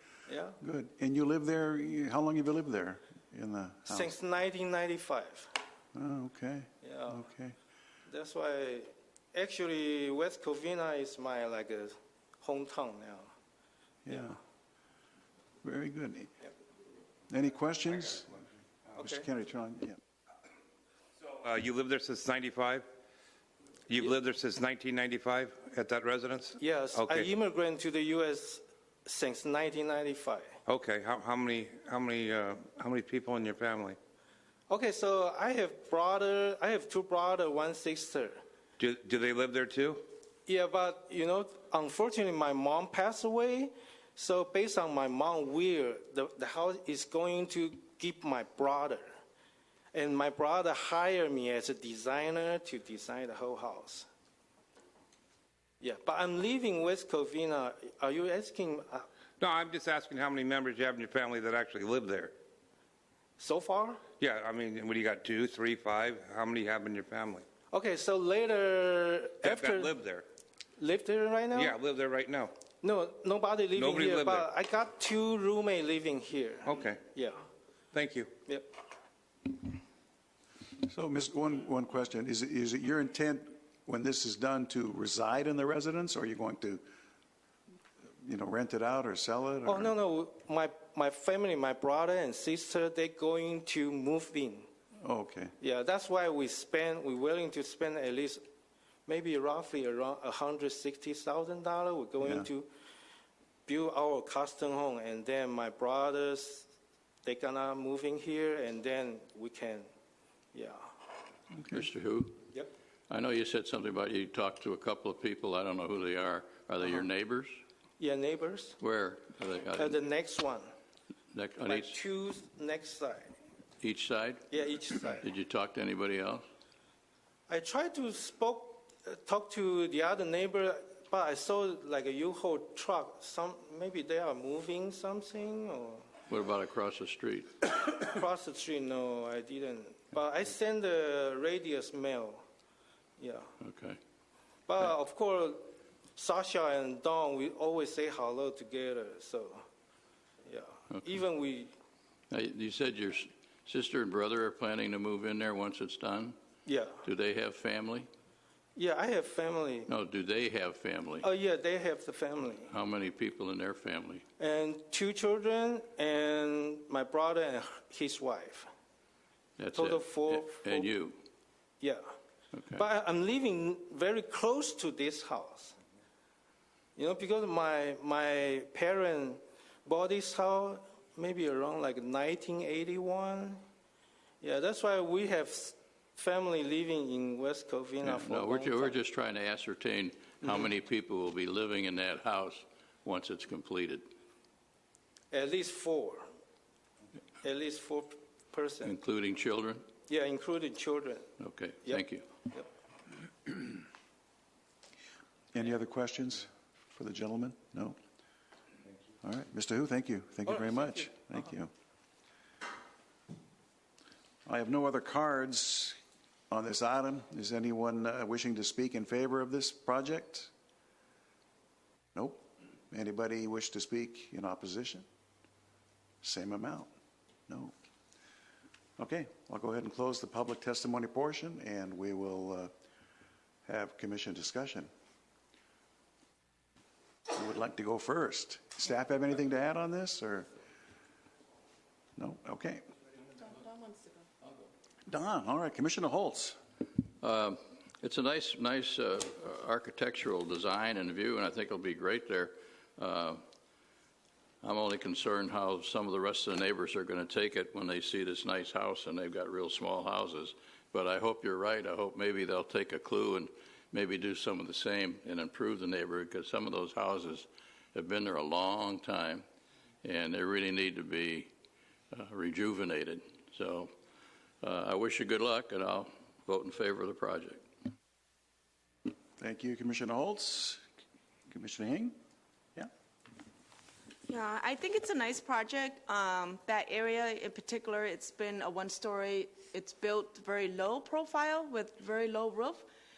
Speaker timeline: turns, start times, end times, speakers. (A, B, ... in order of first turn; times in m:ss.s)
0:00.3-0:00.6 A
0:00.6-0:04.1 B
0:03.9-0:05.5 A
0:05.9-0:07.5 B
0:06.8-0:07.2 A
0:08.1-0:13.3 A
0:14.0-0:14.4 B
0:15.6-0:16.3 B
0:17.3-0:18.4 B
0:19.0-0:20.0 B
0:21.2-0:22.8 C
0:23.9-0:27.3 C
0:26.6-0:30.5 A
0:30.6-0:34.0 C
0:34.7-0:38.4 A
0:38.8-0:40.0 C
0:40.5-0:49.1 A
0:49.9-0:54.1 A
0:55.8-0:59.1 A
0:59.4-1:02.3 C
1:03.4-1:04.0 A
1:04.2-1:07.4 C
1:07.7-1:09.9 A
1:09.4-1:10.2 C
1:10.8-1:11.7 A
1:11.5-1:12.5 C
1:12.8-1:17.4 A
1:13.7-1:14.5 C
1:16.6-1:17.0 C
1:17.9-1:18.3 C
1:20.8-1:26.8 B
1:28.2-1:29.9 B
1:29.6-1:34.7 A
1:35.0-1:35.5 B
1:35.6-1:38.4 A
1:39.1-1:42.7 A
1:43.7-1:46.7 A
1:47.2-1:49.9 A
1:50.5-1:50.9 A
1:51.5-1:51.8 B
1:51.7-1:52.4 D
1:53.1-1:57.6 D
1:58.0-1:58.8 A
1:58.8-2:00.0 D
1:59.8-2:00.7 A
2:01.3-2:02.0 D
2:01.6-2:03.3 A
2:03.8-2:04.5 D
2:04.5-2:05.2 A
2:05.2-2:06.4 D
2:07.5-2:16.1 A
2:16.3-2:17.6 D
2:17.6-2:22.4 A
2:23.2-2:23.5 A
2:23.6-2:24.0 D
2:24.7-2:29.6 A
2:30.4-2:31.7 A
2:32.3-2:36.4 D
2:36.6-2:37.0 A
2:37.0-2:38.1 D
2:38.8-2:39.9 A
2:39.9-2:41.3 D
2:41.2-2:42.7 A
2:42.7-2:44.2 D
2:44.4-2:48.7 A
2:49.6-2:51.2 D
2:49.8-2:50.9 A
2:51.8-2:52.1 A
2:52.5-2:52.8 D
2:52.7-2:55.8 A
2:57.0-3:03.6 A
3:04.4-3:09.0 A
3:08.0-3:14.0 D
3:15.3-3:16.3 A
3:17.4-3:18.9 A
3:18.8-3:19.8 D
3:20.1-3:21.3 A
3:21.4-3:22.2 D
3:21.8-3:22.7 A
3:25.5-3:28.0 B
3:29.2-3:31.7 B
3:30.5-3:31.1 A
3:34.4-3:36.0 B
3:36.5-3:40.5 B
3:42.1-3:45.0 B
3:46.2-3:46.9 B
3:47.5-3:47.7 B
3:49.0-3:52.7 B
3:53.6-3:54.9 B
3:57.3-4:00.5 B
4:02.2-4:02.8 B
4:03.4-4:04.2 E
4:05.1-4:06.6 B
4:07.2-4:13.4 D
4:14.6-4:29.4 D
4:30.0-4:31.5 D
4:32.1-4:33.9 D
4:34.6-4:37.6 D
4:39.4-4:40.8 B
4:41.5-4:42.1 B
4:44.3-4:52.8 E